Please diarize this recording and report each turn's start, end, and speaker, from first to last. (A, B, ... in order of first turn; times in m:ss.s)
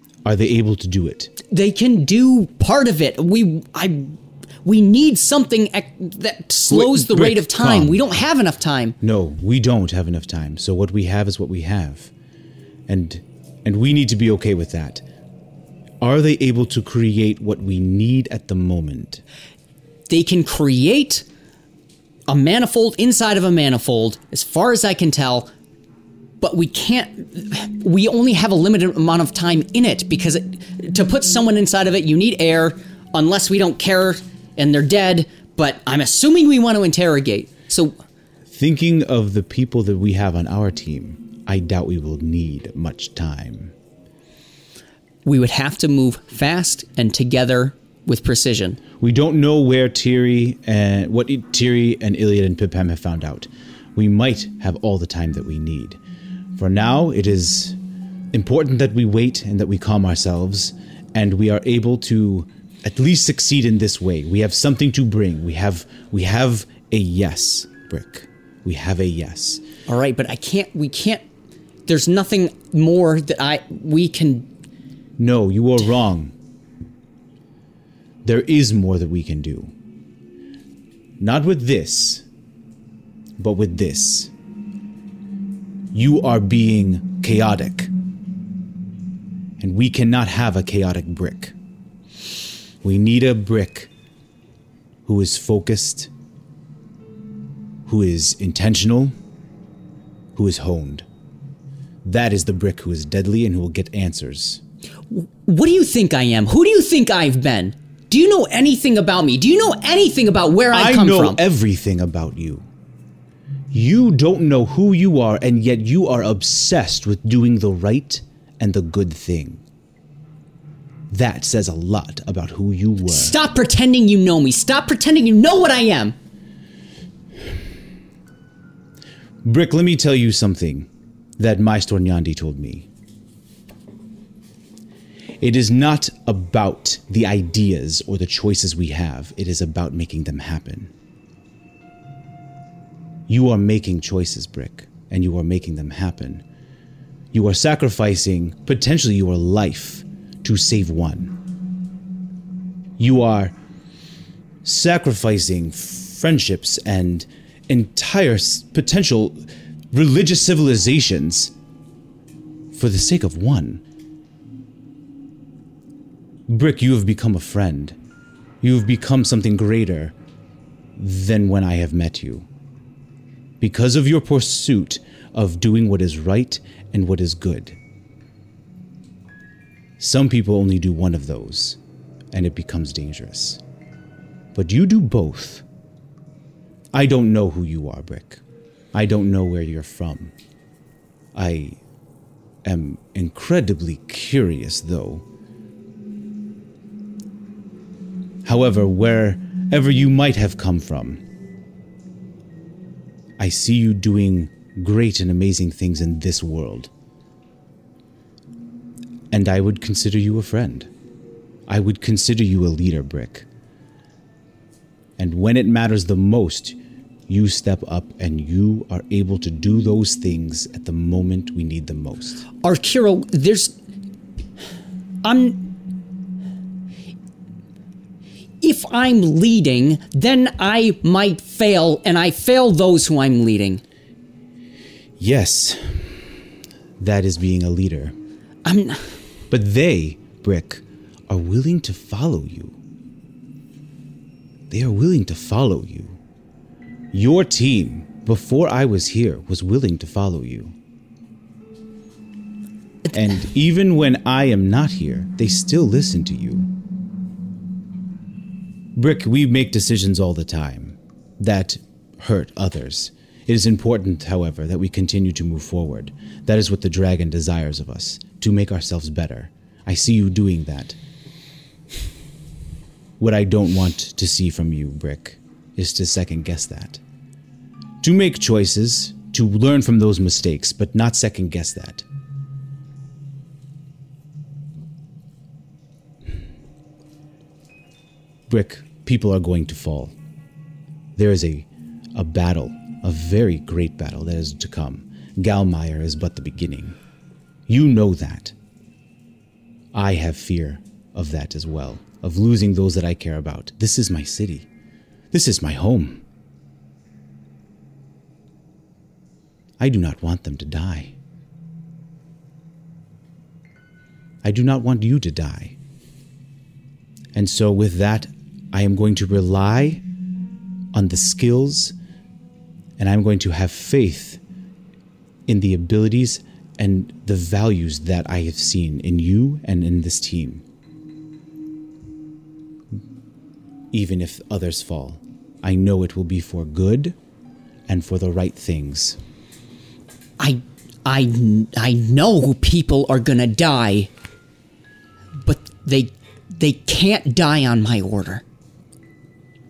0:00.2-0:01.3 A
0:01.5-0:09.0 B
0:06.7-0:08.1 A
0:09.0-0:12.1 A
0:12.9-0:15.0 A
0:16.0-0:19.2 A
0:20.1-0:21.2 B
0:22.3-0:25.5 B
0:26.4-0:38.0 B
0:38.5-0:43.7 A
0:45.2-0:48.8 B
0:49.0-0:56.0 A
0:56.6-0:57.8 A
0:58.3-1:09.6 A
1:09.9-1:11.2 B
1:11.9-1:14.5 B
1:15.2-1:16.3 A
1:18.2-1:19.7 A
1:21.2-1:22.2 A
1:23.4-1:24.3 A
1:25.9-1:27.9 A
1:29.6-1:31.5 A
1:32.8-1:33.9 A
1:35.0-1:36.1 A
1:37.9-1:39.1 A
1:40.3-1:41.1 A
1:42.0-1:44.6 A
1:45.1-1:51.4 B
1:50.7-1:52.7 A
1:53.7-1:59.6 A
2:01.1-2:03.4 A
2:03.1-2:06.2 B
2:09.4-2:12.9 A
2:15.4-2:20.9 A
2:23.3-2:26.4 A
2:27.3-2:31.4 A
2:33.0-2:33.5 A
2:34.6-2:41.5 A
2:42.7-2:43.8 A
2:46.5-2:48.0 A
2:48.6-2:50.2 A
2:51.0-2:52.5 A
2:53.6-2:57.8 A
3:00.0-3:01.8 A
3:02.3-3:03.6 A
3:04.6-3:05.6 A
3:06.9-3:08.4 A
3:08.9-3:10.3 A
3:11.4-3:11.8 A
3:12.6-3:15.2 A
3:18.4-3:21.2 A
3:23.4-3:26.9 A
3:29.3-3:30.9 A
3:31.7-3:33.5 A
3:35.2-3:42.4 A
3:42.6-3:43.8 B
3:45.2-3:45.7 B
3:48.6-3:53.8 B
3:55.2-3:56.3 A
3:57.0-3:58.2 A
3:58.6-3:59.1 B
3:59.5-4:02.8 A
4:04.7-4:06.2 A
4:07.1-4:10.8 A
4:13.1-4:16.7 A
4:19.0-4:31.0 A
4:33.2-4:37.0 A
4:38.0-4:42.0 A
4:48.5-4:50.1 A
4:51.2-4:57.0 A
4:57.7-4:58.5 A
4:59.9-5:04.7 A
5:05.3-5:06.2 A
5:09.8-5:11.1 A
5:14.4-5:15.8 A
5:17.3-5:20.0 A
5:20.9-5:22.0 A
5:23.0-5:24.4 A
5:25.5-5:30.6 A
5:33.9-5:37.2 A
5:37.9-5:39.2 A
5:40.4-5:44.1 B
5:45.4-5:48.4 B